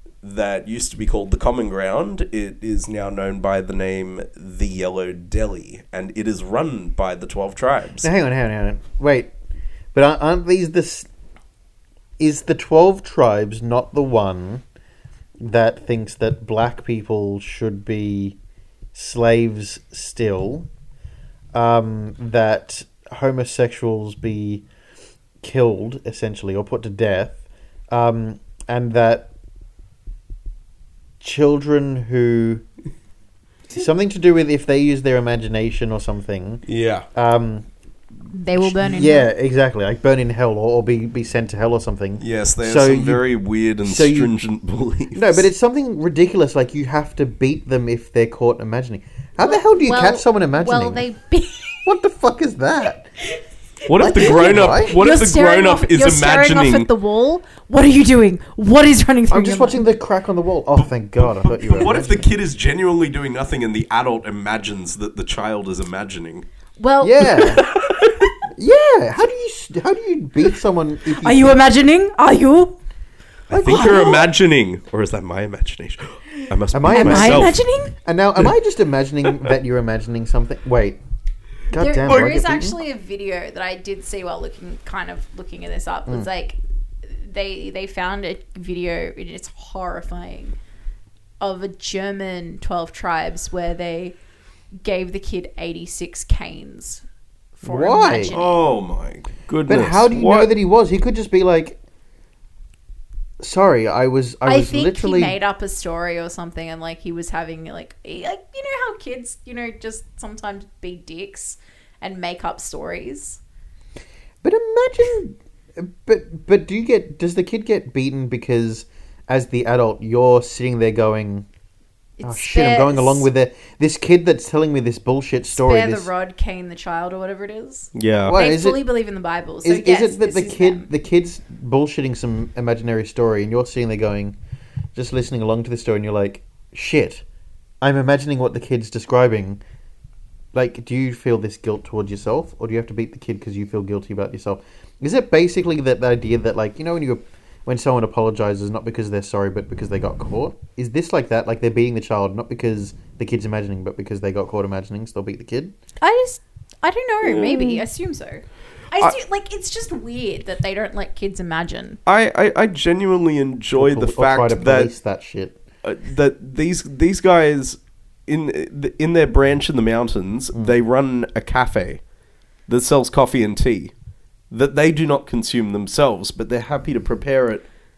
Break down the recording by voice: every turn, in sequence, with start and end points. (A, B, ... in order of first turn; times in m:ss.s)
0:00.2-0:08.1 A
0:08.0-0:09.3 B
0:09.9-0:11.1 B
0:12.2-0:14.6 B
0:15.4-0:18.4 B
0:18.9-0:20.7 B
0:21.5-0:24.6 B
0:25.4-0:27.4 B
0:27.9-0:29.3 B
0:31.2-0:32.6 B
0:33.7-0:36.6 B
0:36.7-0:37.0 A
0:37.1-0:37.7 B
0:38.3-0:39.3 C
0:38.6-0:43.3 B
0:42.2-0:45.4 A
0:43.8-0:44.3 B
0:45.1-0:51.0 B
0:49.4-0:51.8 C
0:51.8-0:53.1 B
0:53.3-0:59.9 C
0:53.9-0:56.9 A
0:54.0-0:55.0 B
0:59.3-1:02.3 B
1:00.7-1:06.4 A
1:06.8-1:07.8 C
1:07.0-1:07.6 B
1:07.2-1:08.3 A
1:08.6-1:11.6 B
1:11.2-1:12.8 C
1:13.5-1:17.6 A
1:13.5-1:14.1 B
1:13.6-1:14.3 C
1:16.7-1:21.0 B
1:16.9-1:18.0 C
1:21.7-1:22.8 B
1:21.7-1:30.6 C
1:31.4-1:34.2 C
1:34.8-1:37.0 C
1:37.6-1:38.6 C
1:37.6-1:38.4 B
1:38.2-1:40.5 A
1:39.6-1:41.8 B
1:43.4-1:45.4 B
1:44.4-1:53.4 C
1:54.4-2:01.4 B
2:02.2-2:03.3 C
2:02.2-2:06.1 B
2:05.5-2:10.9 C
2:08.0-2:08.4 A
2:08.2-2:08.8 B
2:09.6-2:14.4 B
2:15.0-2:17.2 B
2:17.8-2:19.6 B
2:20.5-2:35.7 B
2:36.0-2:42.0 C
2:37.2-2:37.8 A
2:42.0-2:44.9 A
2:43.8-2:45.6 B
2:45.8-2:52.0 A
2:52.7-2:53.9 A
2:54.5-2:57.6 A